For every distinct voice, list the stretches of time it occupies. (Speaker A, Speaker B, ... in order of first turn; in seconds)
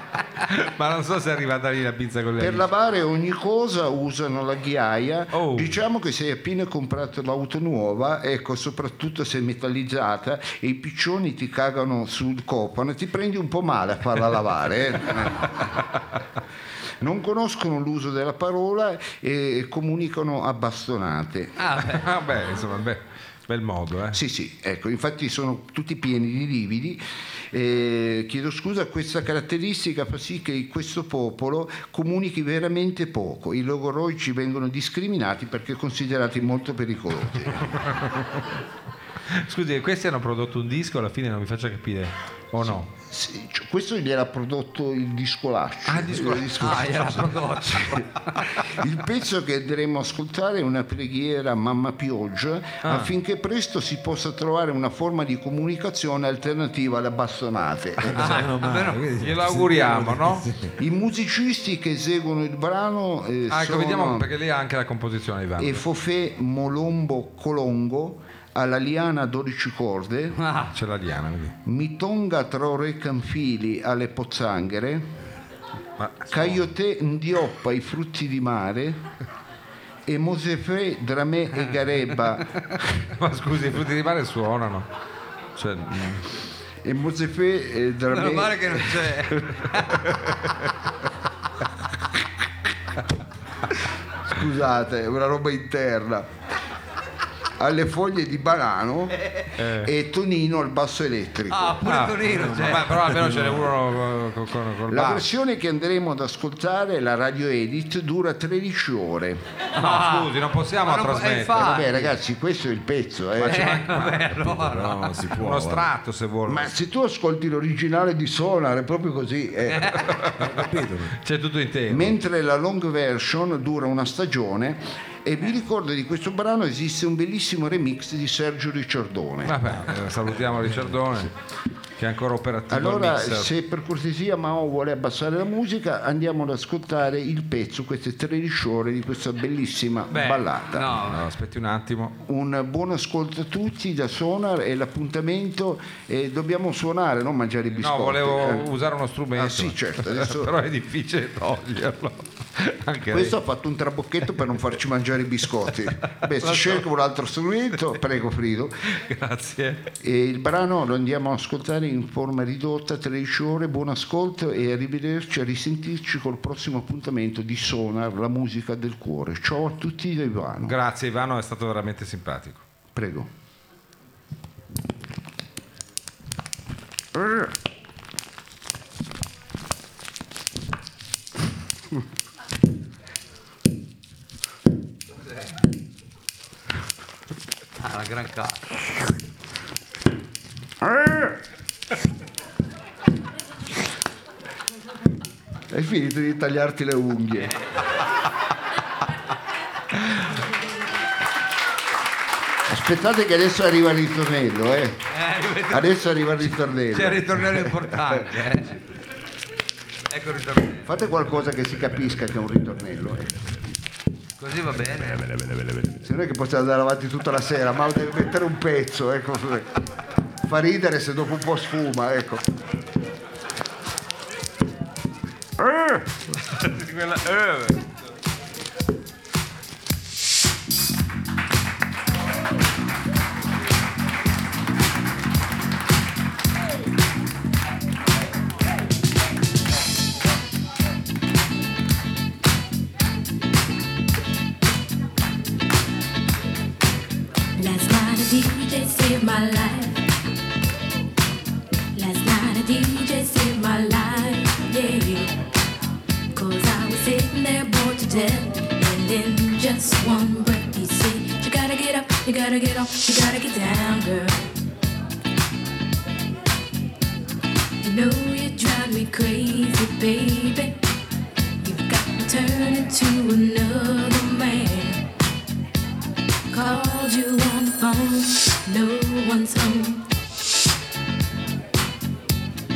Speaker A: 0.4-2.6, 5.3-5.7, 21.9-24.2, 39.3-42.9, 45.9-46.7, 59.2-60.5, 63.5-65.8, 70.7-71.5, 76.0-76.6, 83.1-84.8, 85.5-86.2, 99.5-99.9, 101.8-105.3, 109.8-111.7, 113.3-114.3, 115.3-116.7, 120.0-122.2, 129.4-131.3, 132.0-133.5, 140.1-142.1, 147.8-153.3, 156.4-156.8, 158.9-159.8, 170.6-172.6, 226.6-227.8
Speaker B: 2.4-15.7, 17.0-21.6, 24.1-37.8, 42.6-58.4, 60.8-64.3, 65.6-70.4, 71.6-75.1, 76.3-79.0, 80.0-83.0, 86.8-90.3, 94.2-96.3, 97.6-99.3, 99.8-101.9, 104.9-109.4, 111.5-113.8, 116.5-120.0, 121.9-129.6, 132.7-141.0, 142.2-148.7, 149.3-150.5, 153.1-158.8, 160.0-170.8, 172.9-173.3, 190.8-191.3, 195.7-197.5, 202.7-205.0, 205.7-208.2, 210.8-213.6, 215.9-219.8, 220.4-222.4, 225.6-226.2
Speaker C: 21.6-22.0, 46.4-48.5, 58.1-59.0, 70.3-70.7, 88.1-89.9, 101.5-103.1, 109.7-112.1, 113.4-115.2, 119.7-120.0, 140.7-141.2, 187.8-188.6, 205.1-206.0, 206.9-208.8, 210.1-210.8, 214.4-215.3
Speaker D: 58.0-60.7, 102.3-103.6, 114.2-115.9, 120.4-121.1, 130.4-131.1
Speaker E: 247.6-250.1, 251.9-255.3, 256.3-264.5, 267.8-270.8, 271.6-275.0, 276.5-280.1